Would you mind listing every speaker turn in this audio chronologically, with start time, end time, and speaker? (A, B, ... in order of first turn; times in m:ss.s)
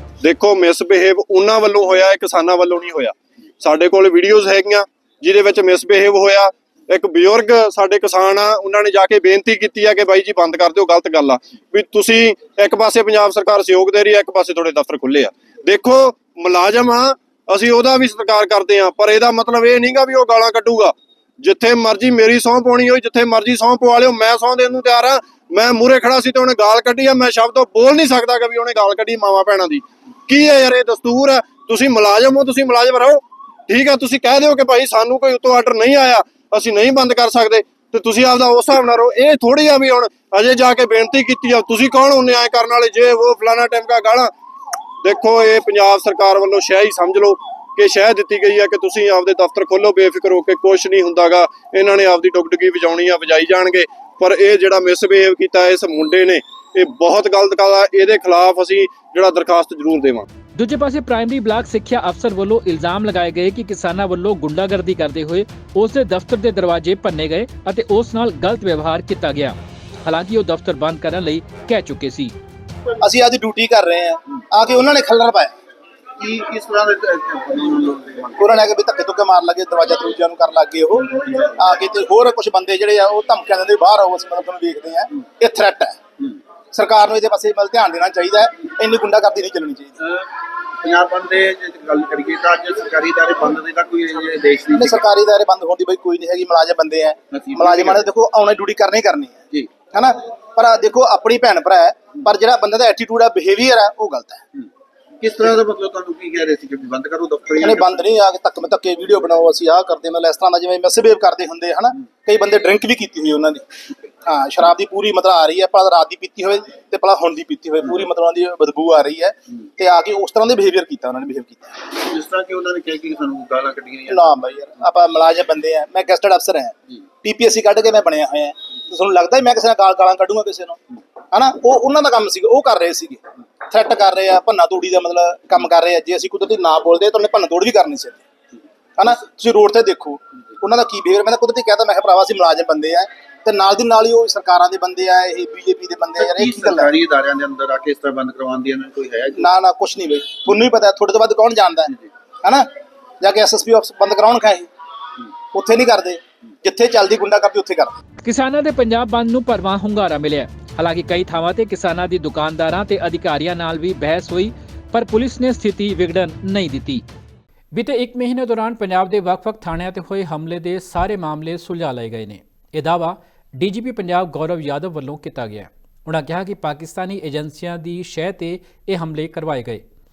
0:00.2-0:44.3 A
0:45.0-1:00.2 A
1:00.6-1:12.3 B
1:13.0-1:15.5 C
1:16.2-1:18.6 D
1:18.4-1:21.0 C
1:21.1-1:21.5 D
1:21.6-1:26.0 C
1:26.7-1:29.9 C
1:30.8-1:35.1 D
1:34.7-1:44.4 C
1:37.3-1:38.1 D
1:45.2-1:48.0 D
1:47.6-1:53.6 C
1:54.2-2:01.8 C
2:01.9-2:04.4 D
2:04.1-2:10.8 C
2:11.3-2:18.2 C
2:19.0-2:26.9 C
2:26.2-2:29.5 D
2:29.4-2:32.7 C
2:33.2-2:34.7 C
2:35.5-2:37.9 C
2:38.2-2:47.0 B
2:47.7-2:59.8 B